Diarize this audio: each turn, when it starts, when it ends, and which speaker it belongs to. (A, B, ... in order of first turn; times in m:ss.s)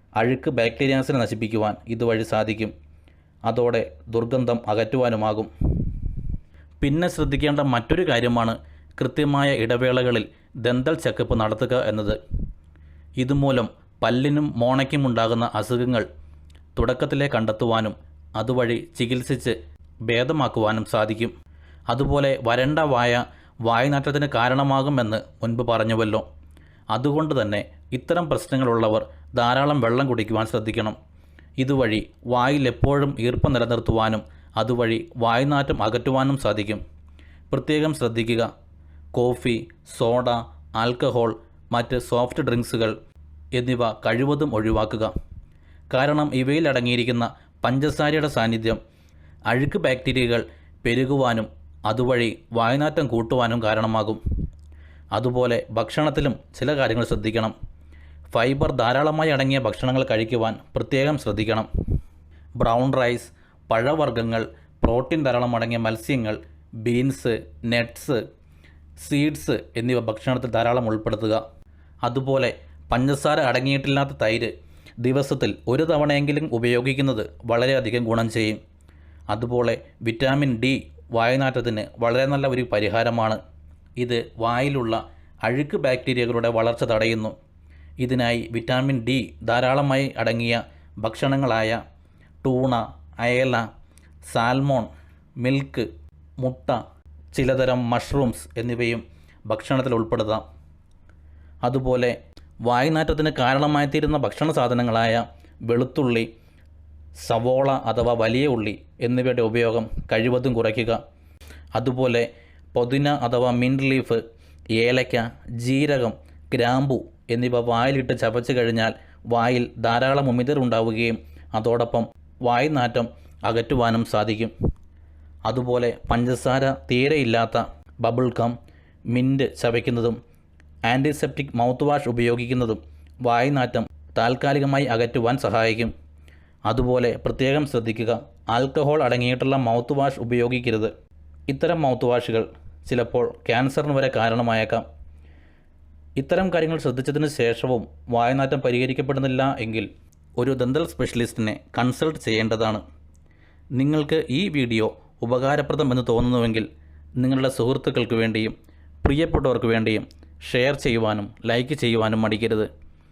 0:00.2-0:02.7 A
0:03.5-0:05.5 A
0:06.8-0:12.2 A
0:13.2-0:16.1 A
0:16.8-0:19.6 A
0:20.1-0:21.3 A
0:21.9-0:26.2 A
0:26.9-0:31.0 A
0:31.6-0:36.8 A
0:37.5-0:38.5 A
0:39.1-0:43.0 A
0:43.6-0:45.1 A
0:45.9-0:48.8 A
0:49.5-0:54.2 A
0:55.1-0:57.6 A
0:58.3-1:01.7 A
1:02.6-1:08.2 A
1:09.0-1:11.4 A
1:12.0-1:18.6 A
1:19.3-1:23.4 A
1:24.0-1:27.4 A
1:28.0-1:31.8 A
1:32.4-1:33.7 A
1:34.3-1:35.9 A
1:36.4-1:36.8 A
1:37.3-1:40.4 A
1:41.6-1:46.3 A
1:47.2-1:51.0 A
1:51.8-1:54.2 A
1:54.8-2:04.5 A
2:05.5-2:08.6 A
2:09.1-2:10.2 A
2:10.9-2:15.9 A
2:16.7-2:20.9 A
2:21.5-2:24.8 A
2:26.2-2:32.8 A
2:33.8-2:36.7 A
2:37.2-2:42.7 A